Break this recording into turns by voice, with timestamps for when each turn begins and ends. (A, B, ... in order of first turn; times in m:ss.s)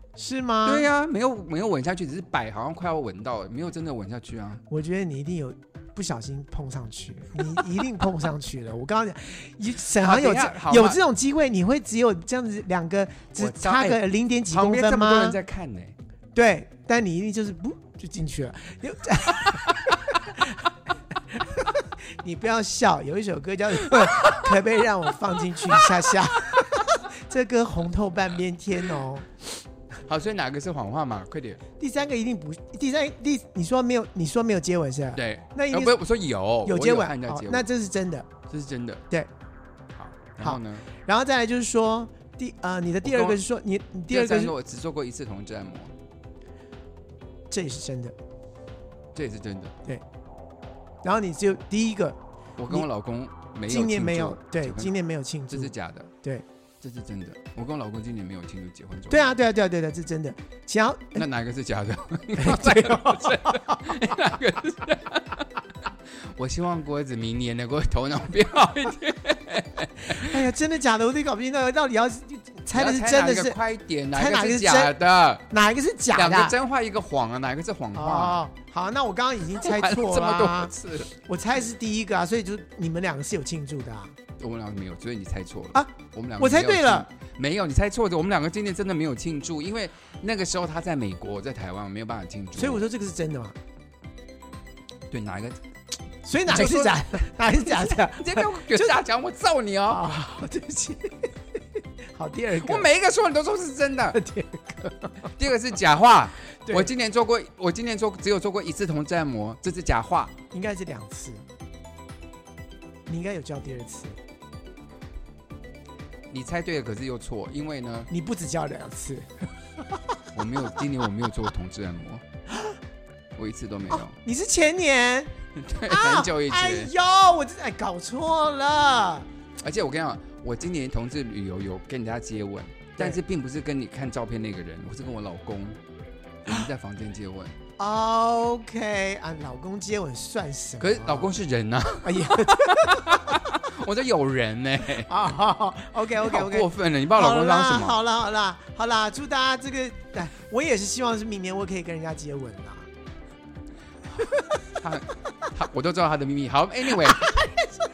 0:00.2-0:00.9 A
0:00.6-0:04.6 B
0:04.7-0:15.4 A
0:09.8-0:11.0 B
0:13.4-0:16.0 B
0:16.3-0:20.7 A
0:21.3-0:29.4 A
0:23.9-0:24.5 B
0:25.6-0:26.8 B
0:30.1-0:31.6 B
0:31.8-0:35.9 A
0:35.1-0:37.7 B
0:36.6-0:38.3 A
0:38.5-0:39.0 B
0:39.9-0:40.9 B
0:40.4-0:44.5 A
0:43.0-0:43.4 B
0:44.1-0:45.9 B
0:47.5-0:48.2 A
0:49.1-0:49.8 B
0:51.0-0:52.9 A
0:52.6-0:54.9 B
0:53.7-0:56.4 A
0:55.5-0:56.1 B
0:56.8-0:59.3 B
0:59.1-1:01.2 A
1:01.1-1:10.4 B
1:02.4-1:04.2 A
1:10.0-1:13.6 A
1:12.7-1:15.5 B
1:14.1-1:15.0 A
1:15.5-1:16.6 A
1:16.1-1:18.4 B
1:17.9-1:24.2 A
1:19.5-1:21.1 B
1:24.4-1:32.8 B
1:25.7-1:27.1 A
1:32.6-1:33.6 A
1:35.1-1:35.6 B
1:36.2-1:39.0 A
1:36.5-1:40.2 B
1:39.9-1:41.3 A
1:42.1-1:42.9 A
1:42.6-1:44.2 B
1:44.1-1:45.3 A
1:45.4-1:50.4 B
1:46.6-1:46.9 A
1:50.5-1:51.4 A
1:53.1-1:54.2 A
1:56.3-1:58.1 B
1:58.1-1:59.3 A
2:00.3-2:02.2 B
2:03.4-2:04.1 B
2:03.9-2:05.3 A
2:05.6-2:06.9 B
2:05.8-2:09.3 A
2:09.6-2:15.8 B
2:16.4-2:17.6 B
2:17.8-2:21.3 A
2:20.8-2:25.1 B
2:22.0-2:23.5 A
2:25.0-2:32.9 A
2:26.2-2:28.0 B
2:34.1-2:37.5 B
2:37.2-2:37.6 A